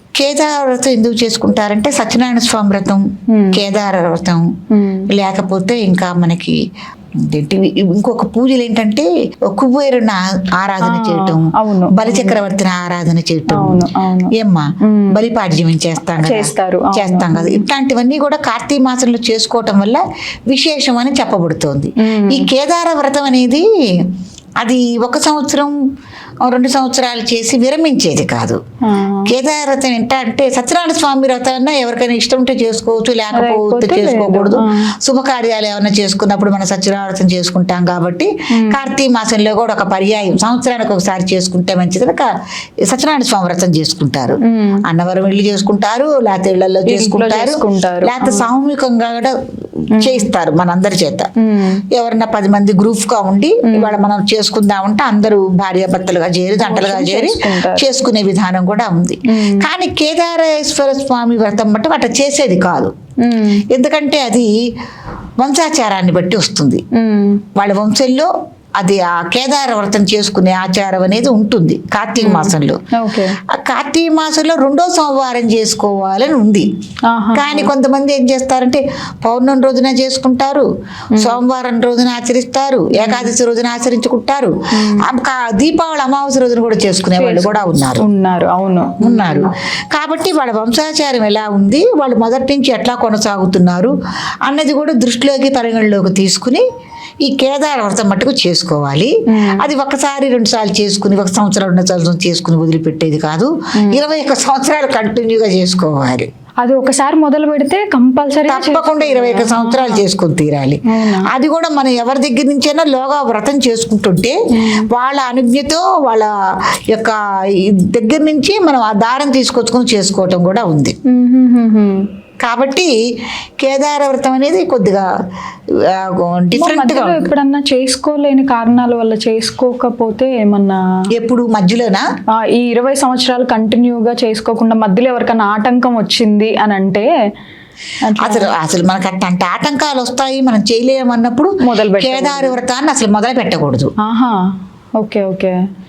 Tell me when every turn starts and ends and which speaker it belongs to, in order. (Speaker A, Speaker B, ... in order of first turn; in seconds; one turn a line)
Speaker A: 0.2-4.5
Speaker B: 3.3-3.6
Speaker B: 4.7-5.1
Speaker A: 5.1-6.6
Speaker A: 7.2-13.8
Speaker B: 10.8-12.4
Speaker B: 13.5-15.2
Speaker A: 14.3-24.1
Speaker B: 16.2-17.6
Speaker B: 22.0-22.5
Speaker A: 24.6-25.7
Speaker A: 26.4-28.6
Speaker B: 28.8-29.3
Speaker A: 29.3-42.3
Speaker B: 33.3-34.8
Speaker B: 38.5-38.8
Speaker A: 42.8-49.4
Speaker B: 44.4-44.8
Speaker B: 46.9-48.5
Speaker A: 50.0-51.3
Speaker B: 50.0-50.3
Speaker B: 51.4-51.8
Speaker A: 51.9-62.9
Speaker B: 53.7-54.0
Speaker B: 56.6-57.9
Speaker B: 59.3-59.7
Speaker B: 63.2-63.6
Speaker A: 63.7-64.5
Speaker A: 65.4-66.8
Speaker B: 66.9-67.4
Speaker A: 67.6-72.8
Speaker B: 72.2-73.4
Speaker A: 73.5-76.7
Speaker B: 77.1-77.7
Speaker A: 77.3-88.0
Speaker B: 81.1-81.4
Speaker B: 82.9-83.3
Speaker B: 84.7-85.0
Speaker B: 87.1-89.5
Speaker A: 89.0-93.9
Speaker A: 94.5-96.6
Speaker A: 97.2-106.3
Speaker B: 99.3-99.7
Speaker B: 103.8-104.0
Speaker B: 106.6-110.0
Speaker A: 108.5-116.3
Speaker B: 110.9-111.3
Speaker B: 114.5-114.9
Speaker A: 116.9-121.0
Speaker B: 121.1-122.1
Speaker A: 122.4-122.9
Speaker A: 123.6-125.1
Speaker A: 125.8-127.3
Speaker B: 126.5-130.8
Speaker A: 131.2-132.1
Speaker B: 132.5-137.1
Speaker B: 138.0-138.5
Speaker A: 138.2-143.9
Speaker B: 141.6-142.6
Speaker B: 144.0-144.4
Speaker B: 145.0-145.6